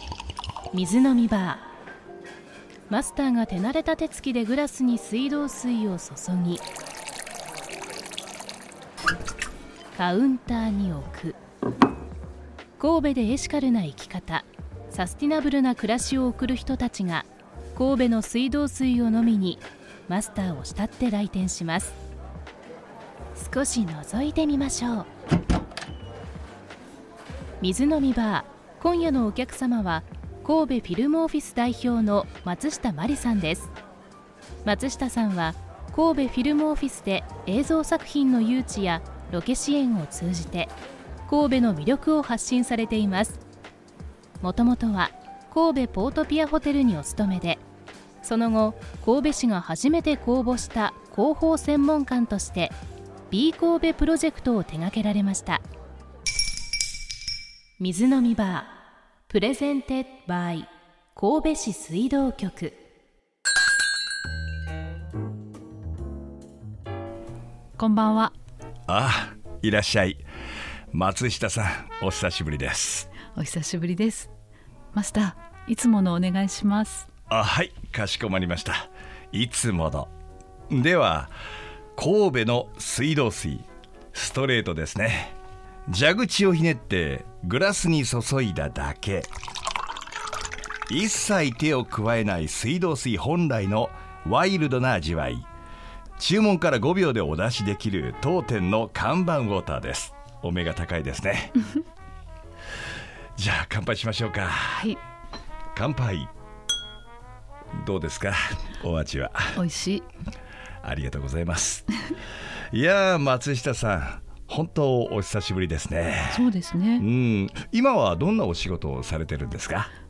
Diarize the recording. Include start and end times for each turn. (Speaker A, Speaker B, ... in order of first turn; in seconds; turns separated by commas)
Speaker A: 0.7-1.7, Speaker A: 2.9-6.6, Speaker A: 9.9-11.4, Speaker A: 12.8-21.9, Speaker A: 23.4-25.1, Speaker A: 27.6-33.7, Speaker A: 34.6-40.7, Speaker A: 41.3-43.4, Speaker A: 44.4-47.6, Speaker A: 48.2-52.8, Speaker A: 53.3-55.6, Speaker A: 57.8-58.8, Speaker A: 59.3-62.7, Speaker B: 67.8-68.3, Speaker C: 68.9-70.2, Speaker C: 70.9-73.1, Speaker B: 73.3-74.3, Speaker B: 74.9-77.1, Speaker C: 77.3-80.1, Speaker C: 80.7-81.3, Speaker C: 82.0-85.4, Speaker C: 85.9-89.3, Speaker C: 90.9-95.5, Speaker C: 96.2-101.6, Speaker C: 103.4-104.9, Speaker B: 104.7-105.0, Speaker C: 105.8-106.3, Speaker C: 107.8-109.6, Speaker B: 109.5-110.1, Speaker C: 110.8-111.9, Speaker C: 112.7-119.9, Speaker B: 116.3-117.0